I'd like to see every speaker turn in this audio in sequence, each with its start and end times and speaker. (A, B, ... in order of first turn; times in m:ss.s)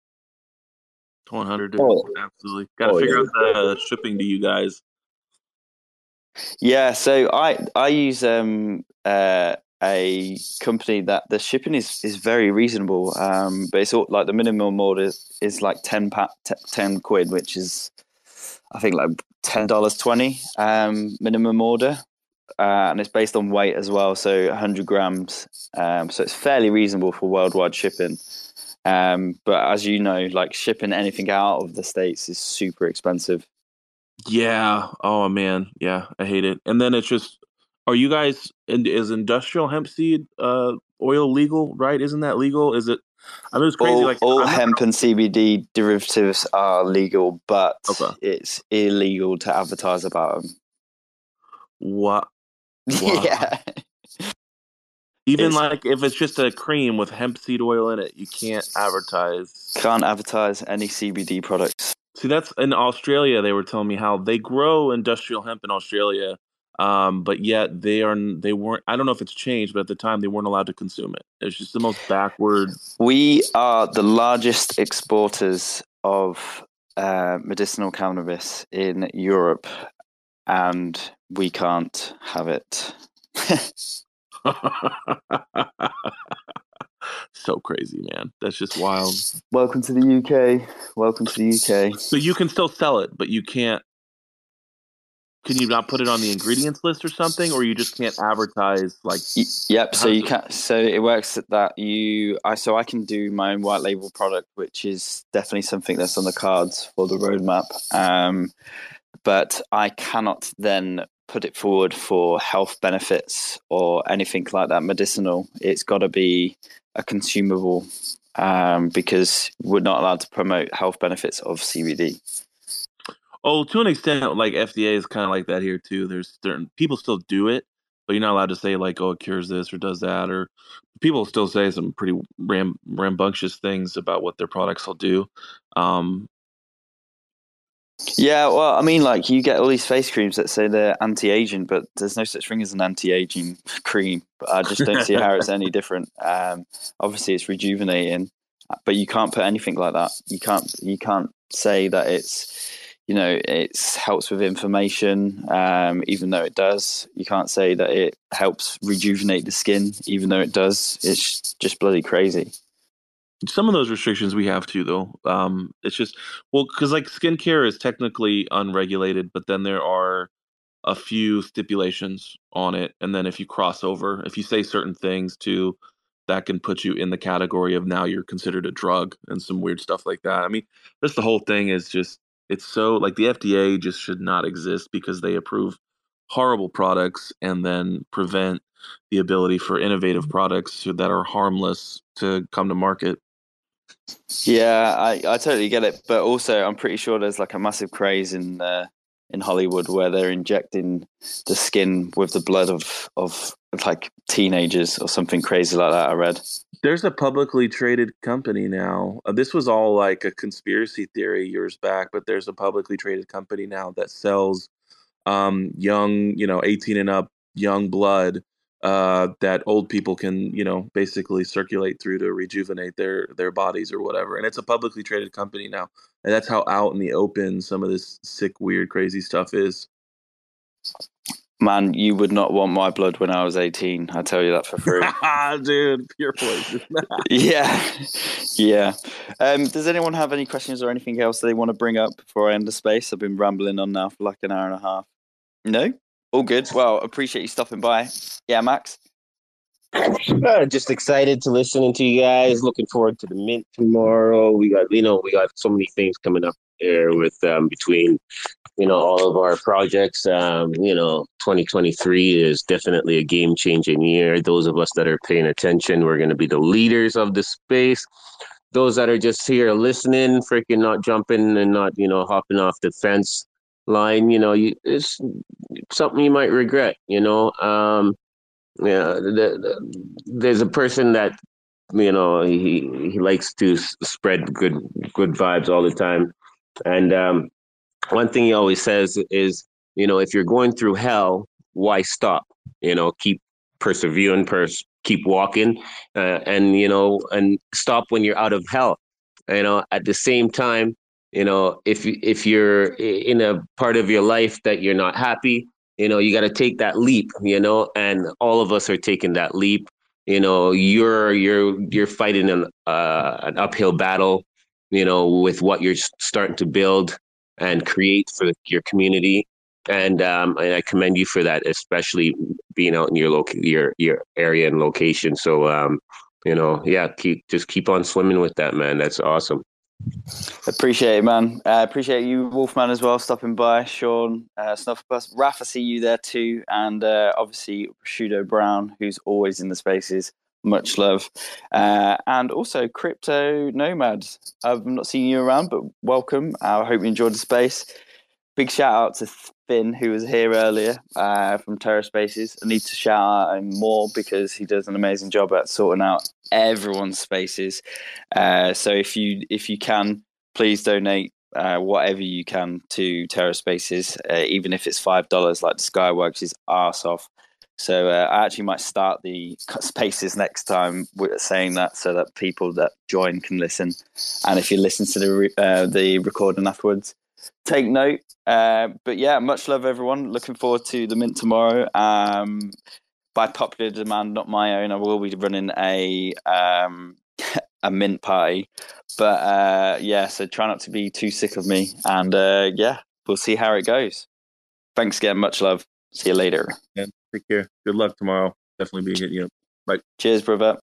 0:01.3-0:04.8 A
0:01.8-0:02.1 B
0:02.8-0:03.6 B
0:06.6-0:17.9 C
0:18.7-0:22.0 C
0:22.6-0:28.2 C
0:28.8-0:33.4 C
0:34.3-0:43.0 A
0:43.5-0:44.8 A
0:43.8-0:50.5 C
0:47.9-0:48.1 A
0:51.8-0:52.3 A
0:52.9-0:54.3 C
0:53.0-0:53.5 A
0:55.2-0:59.7 A
0:59.8-1:01.9 C
1:02.2-1:12.8 A
1:13.0-1:19.7 C
1:20.5-1:23.7 C
1:24.4-1:26.1 A
1:27.3-1:29.2 A
1:29.5-1:32.0 C
1:32.1-1:33.8 A
1:35.4-1:39.3 A
1:39.4-1:48.5 C
1:39.9-1:40.3 A
1:49.2-1:57.9 C
1:58.4-2:02.2 C
2:03.4-2:16.3 A
2:18.2-2:28.3 C
2:24.8-2:25.2 A
2:28.8-2:42.5 C
2:43.5-2:50.3 A
2:50.8-3:05.8 A
3:06.3-3:13.2 A
3:14.4-3:26.4 C
3:26.8-3:34.7 A
3:35.2-3:49.9 A
3:51.6-3:55.1 C
3:54.9-3:57.2 A
3:57.2-4:05.0 C
4:05.6-4:09.0 C
4:09.9-4:18.2 B
4:18.8-4:28.1 B
4:28.7-4:35.4 B
4:35.9-4:38.2 B
4:38.8-4:41.3 B
4:41.9-4:46.3 B
4:46.8-4:47.5 B
4:48.1-5:29.6 B
5:30.7-5:47.9 C
5:48.6-5:57.8 C
5:58.3-6:17.1 C
6:17.6-6:22.7 C
6:23.3-6:34.3 C
6:35.0-6:36.8 C
6:37.0-6:40.0 A
6:40.2-6:40.8 C